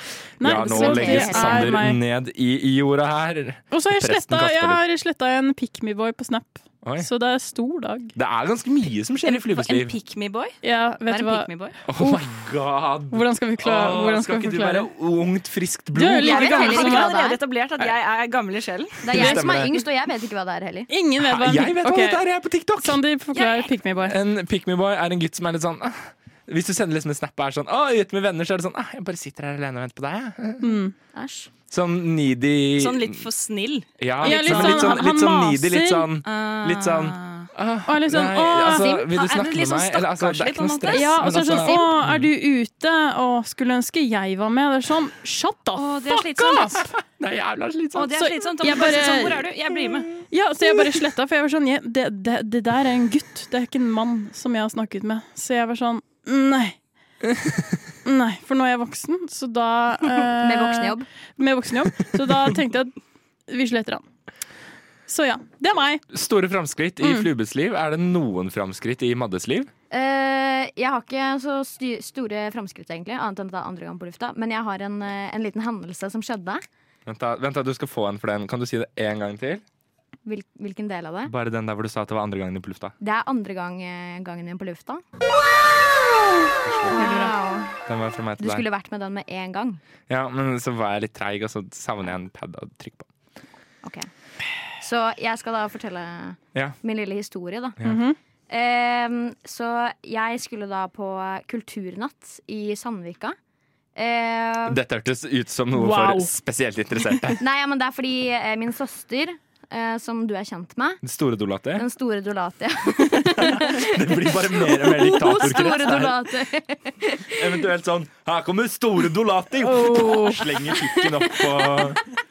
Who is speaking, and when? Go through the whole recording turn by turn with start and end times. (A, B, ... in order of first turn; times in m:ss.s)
0:00.4-0:02.0 A
0:00.4-0:04.8 B
0:00.7-0:01.8 C
0:03.7-0:08.2 A
0:06.8-0:07.1 B
0:08.2-0:09.9 B
0:09.2-0:11.8 D
0:10.6-0:12.2 A
0:11.9-0:16.8 B
0:13.1-0:14.9 A
0:16.0-0:17.1 A
0:16.2-0:17.4 C
0:16.2-0:19.0 D
0:19.0-0:20.9 C
0:19.1-0:19.7 B
0:19.1-0:19.7 A
0:20.9-0:22.2 A
0:21.2-0:23.0 B
0:22.8-0:24.2 A
0:23.3-0:23.7 D
0:24.0-0:30.8 B
0:30.6-0:30.9 A
0:31.1-0:31.5 C
0:31.7-0:33.3 B
0:32.8-0:35.0 D
0:34.0-0:42.3 B
0:34.2-0:36.1 A
0:36.2-0:37.5 D
0:37.9-0:39.1 A
0:39.1-0:41.2 D
0:40.9-0:47.0 A
0:41.5-0:41.8 C
0:45.8-0:46.8 D
0:47.2-0:48.3 B
0:47.9-0:50.2 D
0:48.2-0:49.5 A
0:50.3-0:56.8 A
0:57.3-0:57.7 B
0:58.0-1:03.0 A
1:00.4-1:01.1 C
1:03.5-1:04.0 A
1:05.1-1:06.0 A
1:06.1-1:09.7 B
1:09.9-1:16.6 C
1:17.1-1:19.6 B
1:20.3-1:21.3 C
1:21.2-1:22.9 B
1:23.0-1:25.0 C
1:26.6-1:27.3 B
1:26.9-1:27.8 C
1:27.0-1:27.3 A
1:27.9-1:28.6 B
1:28.4-1:29.8 C
1:30.1-1:33.1 B
1:33.8-1:34.1 C
1:34.8-1:37.8 C
1:37.8-1:38.2 A
1:38.5-1:43.4 C
1:44.0-1:44.8 C
1:44.7-1:47.4 B
1:45.7-1:46.3 A
1:47.4-1:51.0 C
1:51.0-1:51.8 B
1:51.8-1:57.6 C
1:53.1-1:56.2 B
1:57.3-2:02.0 B
1:59.6-2:00.5 A